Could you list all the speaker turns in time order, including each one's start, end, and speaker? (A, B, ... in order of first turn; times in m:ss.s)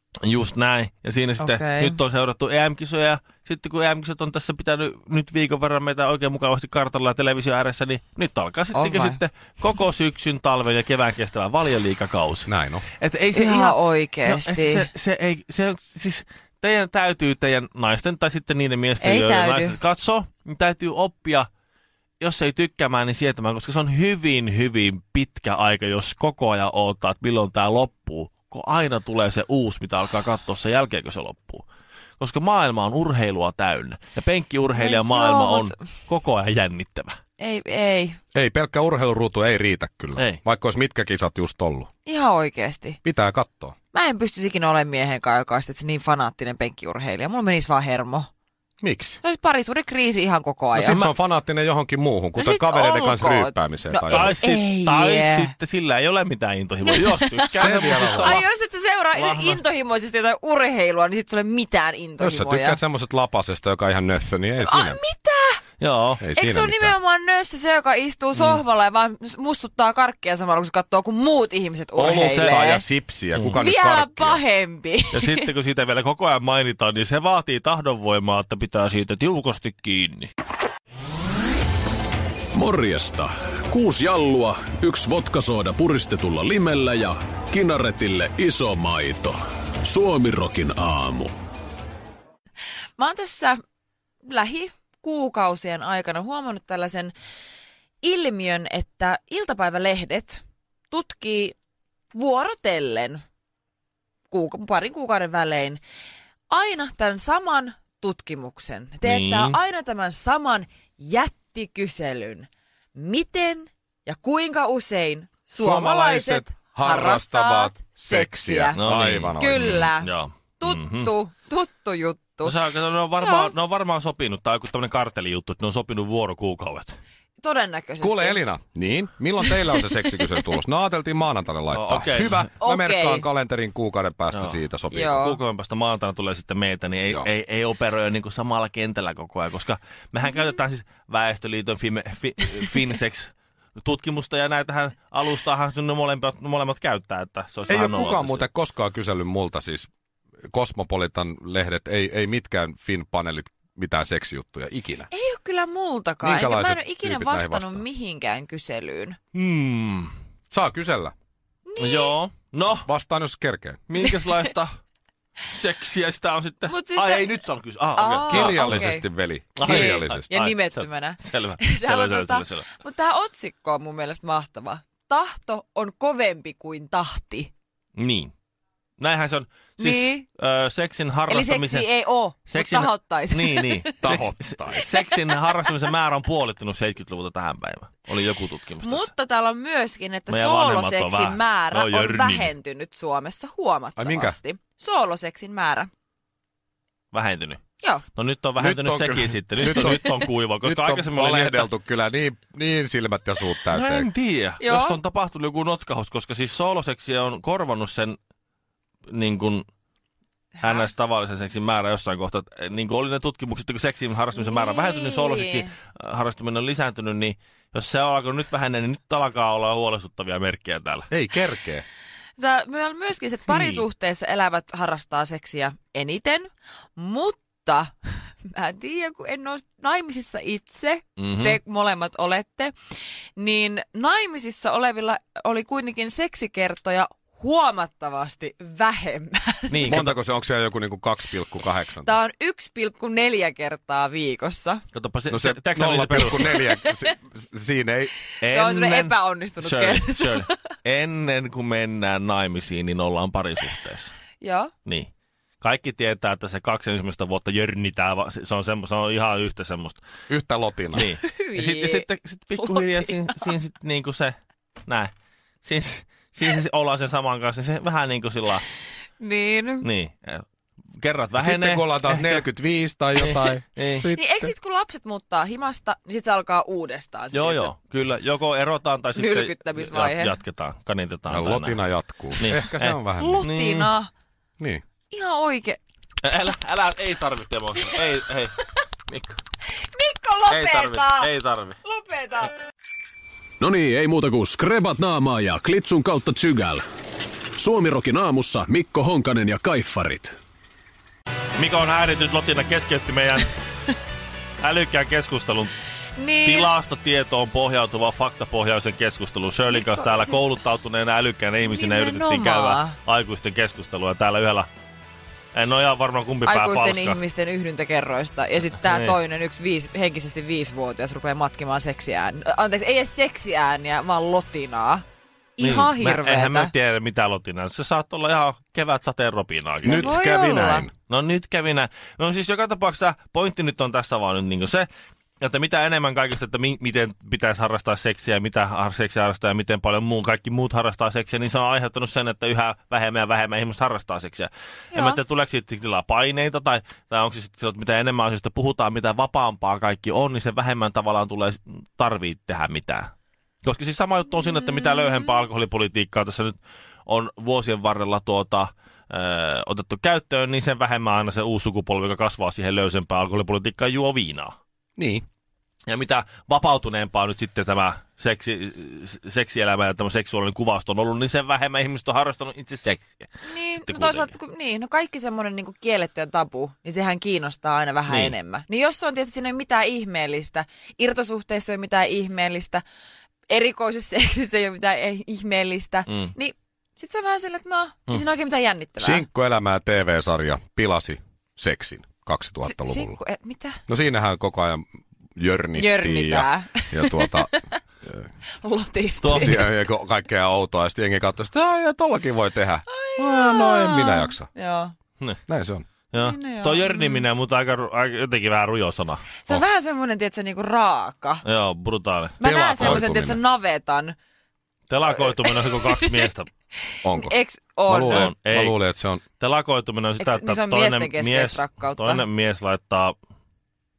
0:00.2-0:21.5 A
0:01.4-0:02.0 B
0:08.7-0:09.2 B
0:12.5-0:12.8 C
0:13.3-0:14.9 B
0:19.0-0:19.8 B
0:22.2-0:31.6 A
0:32.2-0:37.2 A
0:34.8-0:35.8 B
0:37.4-0:38.2 B
0:38.3-0:41.9 C
0:42.0-0:43.0 B
0:43.0-0:43.7 C
0:43.9-0:48.3 B
0:48.8-0:49.2 C
0:49.2-0:51.0 B
0:50.7-0:54.3 C
0:52.4-0:55.5 B
0:54.1-0:58.4 A
0:56.8-1:02.8 B
0:57.5-0:58.4 C
0:59.1-0:59.6 A
1:02.2-1:05.0 C
1:04.6-1:05.6 B
1:05.8-1:06.2 A
1:06.2-1:06.9 C
1:06.4-1:12.8 B
1:12.0-1:14.4 C
1:13.6-1:15.5 B
1:15.1-1:20.3 A
1:22.5-1:31.3 D
1:33.0-1:33.6 B
1:34.2-1:37.1 B
1:38.0-1:41.6 B
1:42.1-1:43.2 B
1:44.3-1:45.8 B
1:46.5-1:58.8 B
1:49.0-1:49.6 A
1:55.6-1:59.9 C
1:58.8-2:01.1 A
1:59.4-2:02.6 B
2:02.4-2:07.0 A
2:03.2-2:03.5 B
2:07.4-2:08.4 B
2:08.0-2:15.2 C
2:09.5-2:09.8 B
2:11.7-2:12.5 A
2:12.6-2:13.2 B
2:14.9-2:15.4 B
2:15.2-2:28.4 A
2:27.7-2:29.9 C
2:30.5-2:35.1 C
2:35.1-2:39.2 B
2:36.2-2:37.8 C
2:39.3-2:40.1 A
2:40.5-2:41.1 C
2:41.7-2:42.2 B
2:41.8-2:42.9 A
2:42.8-2:43.8 C
2:43.9-2:44.7 A
2:44.0-2:44.4 B
2:45.5-2:48.8 A
2:46.7-2:47.3 B
2:48.0-2:49.0 B
2:48.3-2:50.3 C
2:49.6-2:52.7 A
2:49.6-2:57.5 B
2:58.0-2:58.3 A
2:59.0-3:01.9 A
2:59.8-3:00.2 B
3:01.3-3:03.9 B
3:02.5-3:09.1 A
3:04.0-3:04.9 C
3:08.8-3:15.9 B
3:10.3-3:12.5 A
3:14.0-3:14.4 C
3:17.1-3:17.6 A
3:18.1-3:21.7 A
3:18.6-3:24.1 C
3:23.7-3:28.2 A
3:24.6-3:25.0 B
3:29.1-3:29.6 A
3:30.6-3:30.8 B
3:30.6-3:41.1 A
3:34.3-3:35.7 B
3:41.1-3:41.8 C
3:42.4-3:52.7 B
3:43.5-3:43.8 A
3:51.2-3:51.6 A
3:53.4-4:00.0 B
3:59.7-4:00.1 A
3:59.8-4:02.1 C
4:02.0-4:04.8 B
4:04.9-4:06.6 A
4:05.3-4:08.1 C
4:08.4-4:10.5 B
4:08.4-4:14.1 A
4:14.4-4:14.7 B
4:15.6-4:20.0 A
4:20.3-4:21.1 C
4:20.9-4:24.3 A
4:21.2-4:23.5 B
4:25.6-4:28.6 A
4:29.2-4:29.9 B
4:29.8-4:30.4 A
4:31.0-4:32.4 A
4:31.4-4:34.5 C
4:33.2-4:34.1 A
4:34.1-4:37.7 B
4:37.3-4:41.8 A
4:39.2-4:40.3 B
4:41.3-4:43.4 C
4:42.4-4:43.9 A
4:43.2-4:44.1 B
4:45.1-4:45.8 B
4:46.2-4:49.4 A
4:49.8-4:51.3 B
4:50.5-4:51.8 A
4:51.8-4:52.5 B
4:53.6-4:56.8 D
4:57.6-5:00.3 D
5:01.6-5:03.5 A
5:04.6-5:05.7 A
5:06.2-5:06.7 B
5:06.4-5:14.7 A
5:09.7-5:10.5 B
5:11.6-5:13.0 B
5:15.5-5:17.2 A
5:16.4-5:25.0 B
5:18.8-5:19.2 A
5:25.6-5:26.7 B
5:25.6-5:30.2 A
5:29.8-5:30.9 B
5:29.8-5:30.9 C
5:31.1-5:34.9 A
5:35.4-5:53.1 A
5:44.9-5:45.2 B
5:53.6-5:56.5 A
5:57.1-6:04.5 A
6:05.0-6:05.2 C
6:05.9-6:14.3 A
6:13.4-6:22.8 B
6:18.1-6:18.3 A
6:23.5-6:29.2 B
6:29.0-6:33.2 C
6:32.6-6:33.8 B
6:33.9-6:34.8 C
6:35.4-6:37.5 C
6:35.8-6:37.8 B
6:38.6-6:39.6 B
6:39.2-6:39.6 A
6:39.3-6:44.5 C
6:42.9-6:44.9 B
6:45.5-6:45.9 C
6:46.1-6:49.2 A
6:46.1-6:47.2 B
6:49.4-6:51.4 B
6:51.4-6:53.0 A
6:52.4-6:54.1 B
6:52.4-6:53.4 C
6:54.9-6:56.5 A
6:55.2-6:56.3 B
6:56.9-6:58.3 B
6:57.0-6:57.3 C
6:57.9-6:59.2 C
6:57.9-6:58.8 A
6:59.4-7:03.1 A
7:00.2-7:02.2 B